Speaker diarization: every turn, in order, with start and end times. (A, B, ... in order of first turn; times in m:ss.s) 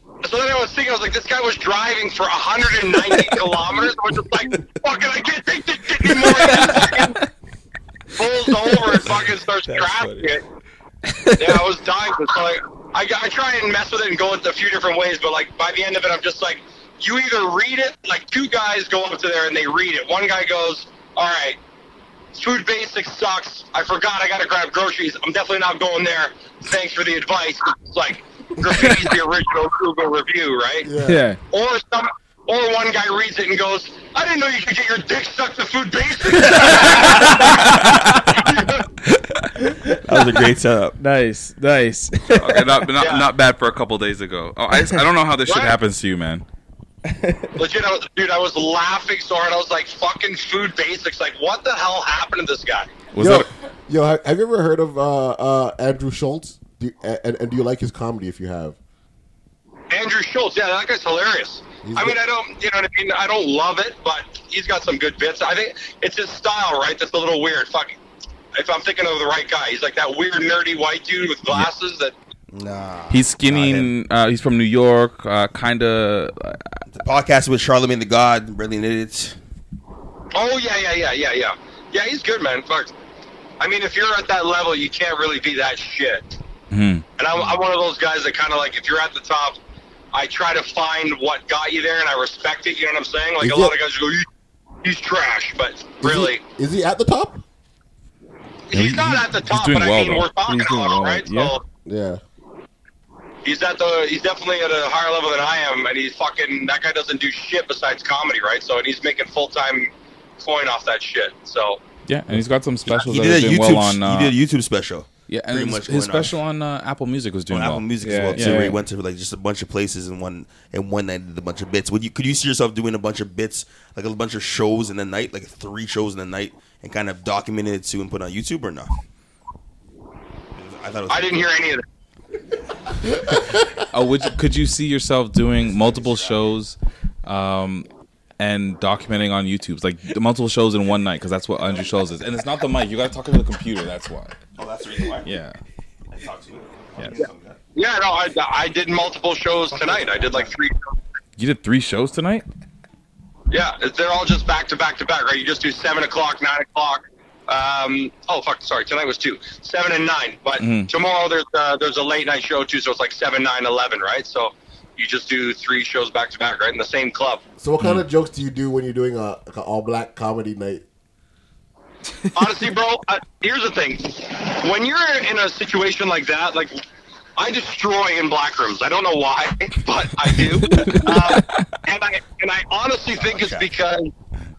0:00.2-0:07.2 A
0:08.2-0:10.4 A
0:09.1-0:10.4 B
0:11.4-0:21.6 A
0:22.4-0:30.9 A
0:30.8-0:31.2 C
0:31.0-0:31.4 D
0:31.5-0:38.9 A
0:36.7-0:37.2 B
0:40.0-0:41.0 B
0:41.0-0:42.7 D
0:42.4-0:46.4 E
0:43.0-0:43.3 A
0:45.4-0:45.8 A
0:47.1-0:47.6 D
0:47.6-0:53.0 A
0:53.1-0:53.5 E
0:53.2-0:58.8 C
0:59.9-1:08.0 A
1:01.8-1:02.2 C
1:08.5-1:12.1 A
1:12.5-1:13.9 B
1:13.1-1:16.8 E
1:16.9-1:19.4 B
1:20.3-1:22.9 A
1:23.6-1:26.3 A
1:26.7-1:27.0 E
1:27.2-1:29.6 A
1:30.1-1:34.3 A
1:33.4-1:33.8 C
1:34.8-1:36.4 A
1:36.0-1:37.4 C
1:38.7-1:41.6 A
1:38.7-1:40.3 E
1:40.5-1:41.6 D
1:41.9-1:42.2 C
1:43.4-1:51.8 A
1:52.1-1:54.3 E
1:52.9-1:56.4 B
1:55.3-1:58.8 E
1:57.5-2:09.0 B
1:58.0-1:58.8 D
2:10.6-2:11.6 B
2:11.1-2:11.8 A
2:13.9-2:17.9 E
2:15.6-2:16.5 B
2:18.4-2:24.4 E
2:24.6-2:25.3 B
2:25.2-2:25.6 E
2:26.1-2:27.6 B
2:27.8-2:30.8 A
2:29.7-2:30.6 B
2:31.4-2:32.5 E
2:33.5-2:47.4 A
2:40.6-2:40.9 E
2:47.6-2:50.8 C
2:52.3-2:56.8 A
2:57.4-3:04.1 A
3:00.7-3:01.1 D
3:03.1-3:03.7 B